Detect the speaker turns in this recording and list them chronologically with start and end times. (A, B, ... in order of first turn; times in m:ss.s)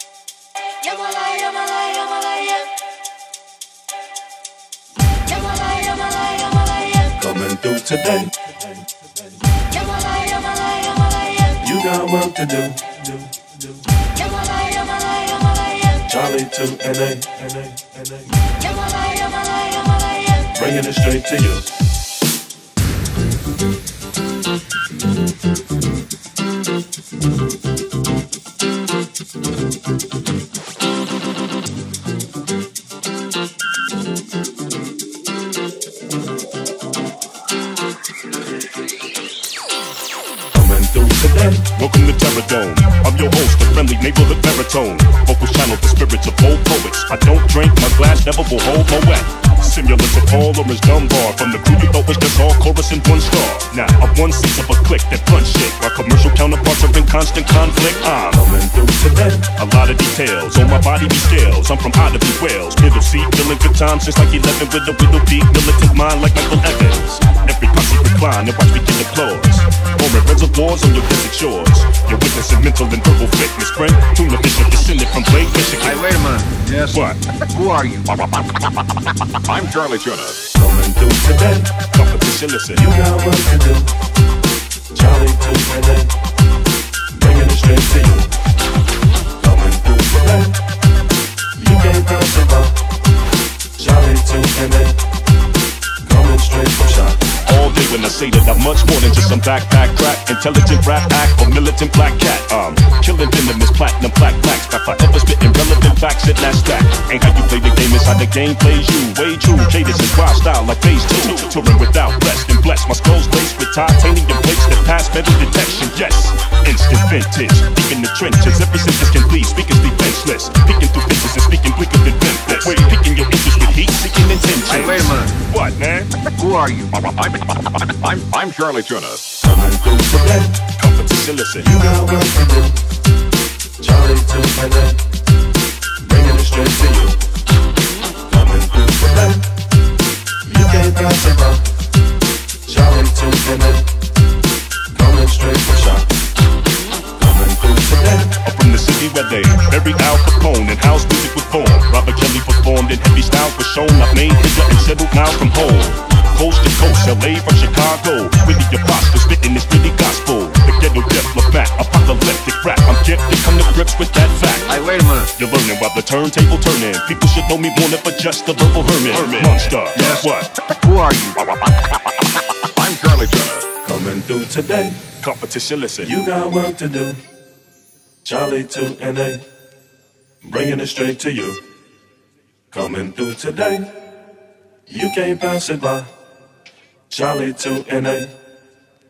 0:01.0-0:01.5 A
0:07.0-0:08.5 B
0:11.4-0:13.8 B
0:15.9-0:18.4 B
0:20.4-0:21.7 B
0:40.5-0:41.7 B
0:41.7-0:58.5 C
0:58.3-0:59.5 B
0:59.5-1:16.1 C
1:15.8-1:18.1 D
1:16.9-1:17.2 C
1:18.2-1:18.7 A
1:19.3-1:20.4 A
1:20.5-1:21.8 B
1:21.9-1:22.8 C
1:22.8-1:23.9 B
1:24.9-1:26.1 B
1:27.1-1:28.3 B
1:29.4-1:30.6 B
1:31.5-1:32.8 B
1:33.8-1:35.0 B
1:36.0-1:37.2 B
1:37.4-2:06.1 C
2:04.6-2:05.3 D
2:06.4-2:06.9 D
2:07.0-2:09.3 A
2:09.4-2:10.6 B
2:10.8-2:11.7 C
2:11.6-2:12.8 B
2:13.8-2:15.0 B
2:16.0-2:17.2 B
2:18.3-2:19.5 B
2:20.4-2:21.7 B
2:22.6-2:23.9 B
2:24.9-2:26.1 B
2:27.2-2:28.4 B
2:28.4-2:44.8 C
2:44.7-2:45.3 D
2:45.3-2:50.5 C
2:49.9-2:51.5 D
2:52.6-2:53.7 A
2:53.8-2:55.0 B
2:55.2-2:56.1 C
2:56.0-2:57.2 B
2:58.2-2:59.4 B
3:00.4-3:01.6 B
3:02.7-3:03.9 B
3:04.9-3:06.1 B
3:07.1-3:08.4 B